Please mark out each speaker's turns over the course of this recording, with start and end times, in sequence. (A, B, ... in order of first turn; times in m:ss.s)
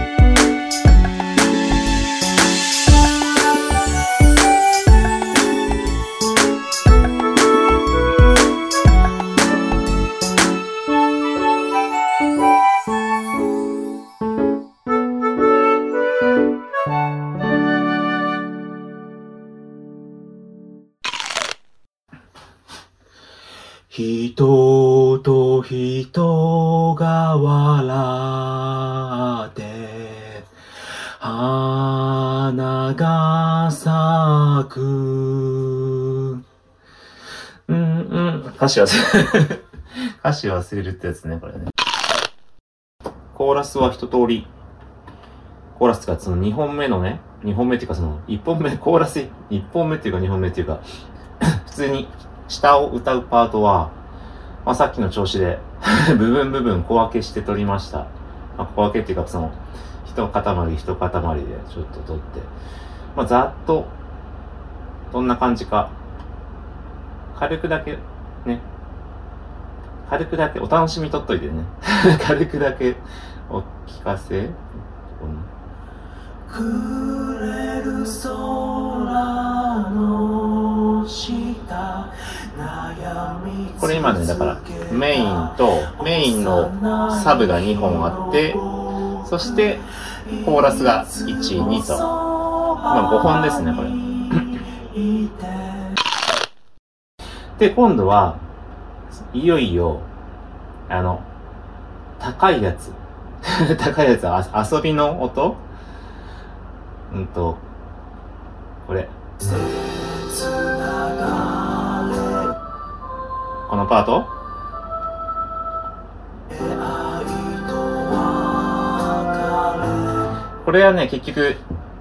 0:23.9-0:30.4 A
0:31.2-0:36.4 A
0:37.7-0:39.6 A
0:40.2-0:41.7 A
0:43.3-0:44.5 A
0:45.8-0:50.8 A
0:51.4-0:54.0 A
0:54.6-1:02.5 A
1:03.2-1:03.9 A
1:05.1-1:06.0 A
1:07.3-1:08.6 A
1:10.1-1:15.5 A
1:16.5-1:35.8 A
1:37.6-1:38.4 A
1:39.3-1:40.1 A
1:40.9-1:41.3 A
1:42.2-1:45.6 A
1:47.1-1:47.6 A
1:48.8-1:49.2 A
1:53.7-1:54.3 A
2:00.6-2:01.6 A